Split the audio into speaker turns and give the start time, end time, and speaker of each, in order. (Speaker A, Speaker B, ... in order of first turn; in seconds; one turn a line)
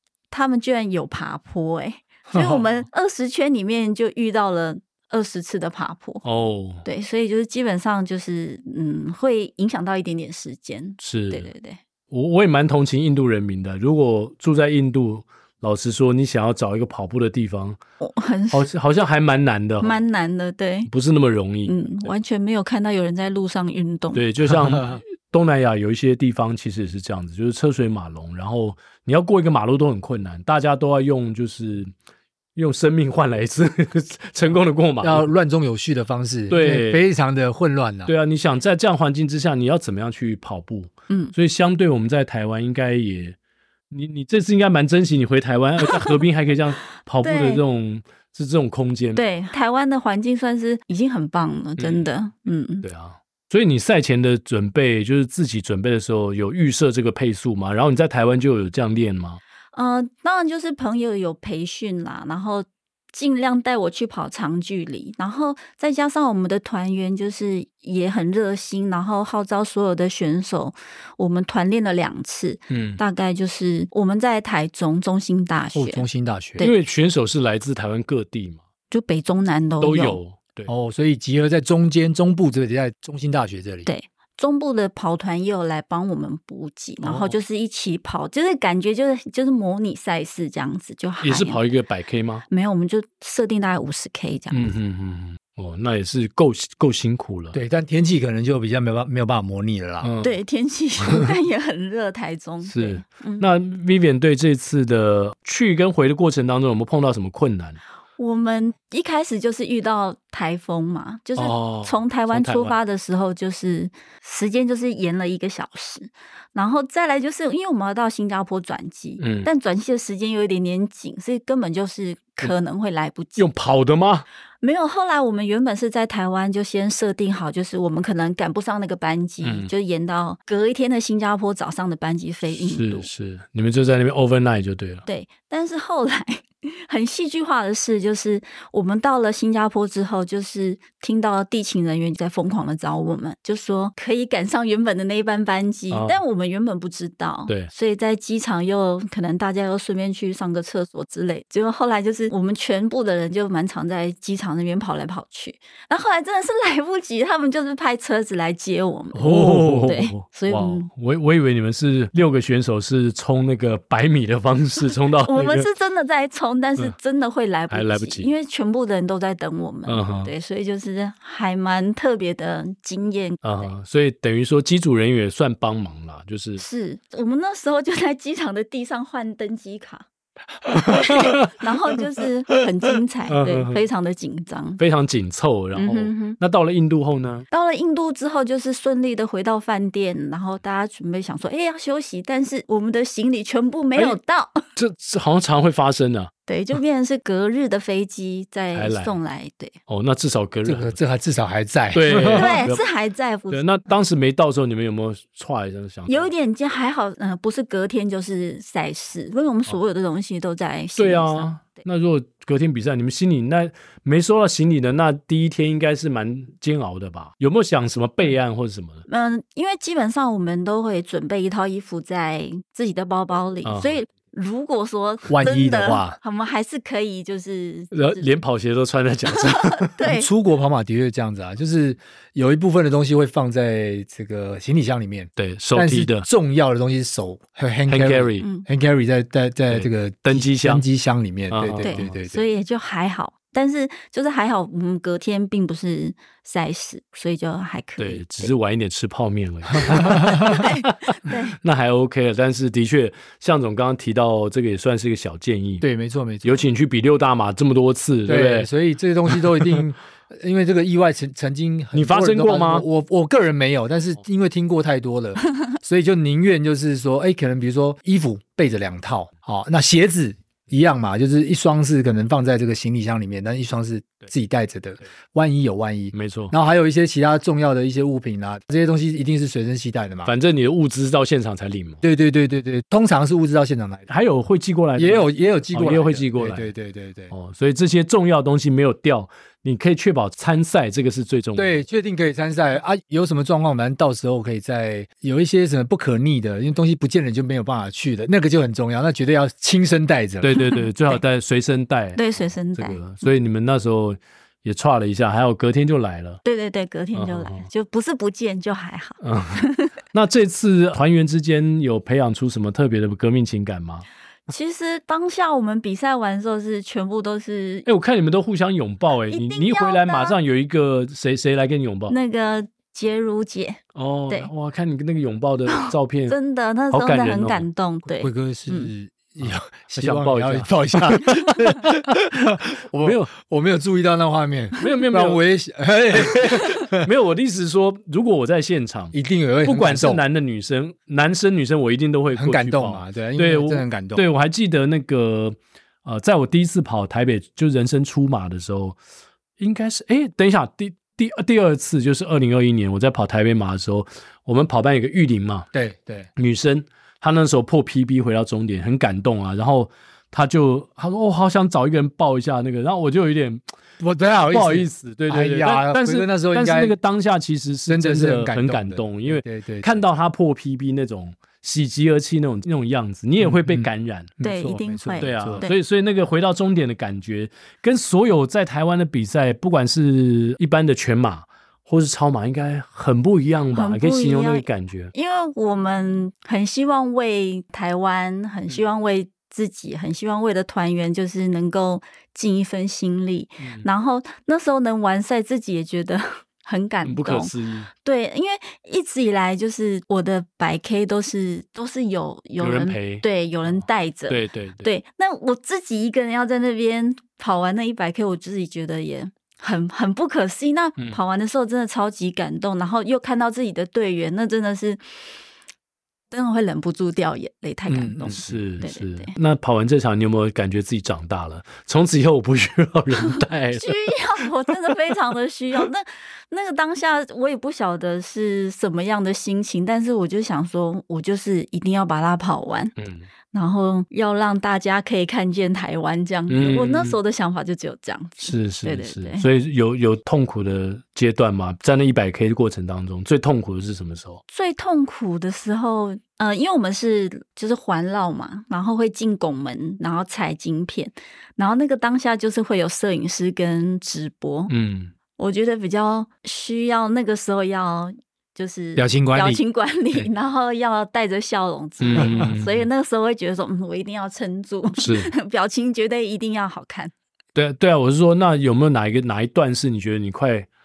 Speaker A: 0.3-6.2
Speaker B: 6.2-6.8
Speaker A: 6.8-11.8
Speaker B: 11.0-11.5
Speaker B: 12.1-17.8
Speaker A: 18.0-18.7
Speaker B: 18.5-20.0
Speaker A: 19.8-20.9
Speaker B: 20.9-22.1
Speaker A: 21.6-24.2
Speaker B: 24.1-31.9
Speaker B: 32.5-35.3
Speaker C: 35.0-38.1
Speaker B: 36.5-37.0
Speaker B: 38.1-43.4
Speaker B: 43.9-49.2
Speaker A: 45.9-46.1
Speaker A: 47.2-47.6
Speaker A: 49.1-52.9
Speaker B: 51.8-52.1
Speaker B: 52.8-59.4
Speaker A: 59.7-76.0
Speaker B: 72.7-73.0
Speaker C: 75.7-76.7
Speaker B: 76.6-78.6
Speaker A: 78.9-80.2
Speaker B: 79.8-80.7
Speaker C: 80.7-83.9
Speaker A: 83.8-91.6
Speaker B: 87.0-87.3
Speaker B: 91.2-92.5
Speaker A: 92.5-94.7
Speaker B: 94.5-97.6
Speaker C: 97.5-100.1
Speaker B: 100.0-100.4
Speaker A: 100.2-103.5
Speaker B: 102.6-107.8
Speaker A: 108.2-123.4
Speaker B: 111.4-112.8
Speaker B: 119.2-119.5
Speaker B: 123.4-124.2
Speaker A: 124.6-133.1
Speaker B: 129.4-129.7
Speaker B: 132.5-135.0
Speaker A: 135.1-160.9
Speaker B: 145.9-146.2
Speaker B: 159.1-165.7
Speaker C: 159.3-159.9
Speaker A: 165.2-173.7
Speaker B: 167.7-168.3
Speaker B: 169.9-170.3
Speaker B: 173.4-176.6
Speaker A: 176.6-180.0
Speaker A: 180.7-184.8
Speaker B: 180.9-181.5
Speaker B: 183.3-183.8
Speaker B: 184.8-187.5
Speaker A: 185.7-186.4
Speaker A: 187.5-194.6
Speaker B: 194.8-196.3
Speaker A: 196.5-199.8
Speaker B: 198.7-199.2
Speaker B: 199.9-200.9
Speaker C: 200.6-202.6
Speaker B: 201.9-202.8
Speaker A: 202.3-203.6
Speaker B: 203.5-206.3
Speaker A: 206.1-211.8
Speaker B: 211.0-219.0
Speaker A: 219.1-228.3
Speaker B: 223.6-223.9
Speaker C: 225.3-226.0
Speaker B: 225.4-226.2
Speaker B: 227.9-229.9
Speaker A: 229.3-230.3
Speaker C: 230.0-242.4
Speaker B: 235.4-236.3
Speaker B: 237.9-238.4
Speaker A: 238.4-238.7
Speaker B: 239.7-240.8
Speaker B: 241.5-242.1
Speaker A: 241.8-248.5
Speaker B: 248.0-255.8
Speaker A: 250.2-251.6
Speaker C: 255.8-256.6
Speaker B: 256.4-258.7
Speaker C: 258.2-280.3
Speaker B: 259.3-259.8
Speaker B: 261.9-262.8
Speaker B: 276.1-276.5
Speaker B: 280.2-282.0
Speaker C: 282.0-284.1
Speaker B: 284.1-286.7
Speaker C: 284.9-287.3
Speaker B: 287.3-291.8
Speaker C: 291.6-300.5
Speaker B: 300.4-306.4
Speaker A: 300.6-301.2
Speaker A: 302.1-303.1
Speaker A: 306.4-309.9
Speaker B: 307.1-307.7
Speaker B: 309.2-314.1
Speaker A: 314.5-317.9
Speaker B: 317.9-322.1
Speaker A: 319.3-320.4
Speaker A: 322.1-324.5
Speaker B: 323.9-326.4
Speaker A: 325.7-328.9
Speaker B: 326.9-327.6
Speaker C: 328.2-337.1
Speaker B: 329.4-332.0
Speaker B: 333.0-333.3
Speaker B: 334.8-335.4
Speaker B: 336.1-349.0
Speaker C: 339.1-340.2
Speaker C: 342.3-344.2
Speaker B: 349.6-355.7
Speaker C: 355.7-356.3
Speaker B: 356.4-363.6
Speaker C: 364.0-366.9
Speaker B: 364.5-374.4
Speaker C: 367.9-370.0
Speaker C: 373.4-373.9
Speaker C: 374.4-375.6
Speaker A: 374.4-375.8
Speaker B: 375.2-385.1
Speaker A: 383.7-397.5
Speaker B: 393.6-393.8
Speaker B: 397.0-397.9
Speaker A: 398.0-415.3
Speaker B: 402.6-404.9
Speaker A: 416.3-419.3
Speaker B: 417.9-424.5
Speaker A: 423.7-432.9
Speaker B: 433.0-433.3
Speaker A: 433.5-439.5
Speaker B: 436.5-437.2
Speaker B: 438.4-444.4
Speaker A: 444.5-454.7
Speaker B: 454.7-455.1
Speaker A: 455.4-467.1
Speaker C: 458.9-459.6
Speaker B: 462.0-462.9
Speaker C: 462.2-462.5
Speaker B: 465.0-465.3
Speaker B: 467.5-470.7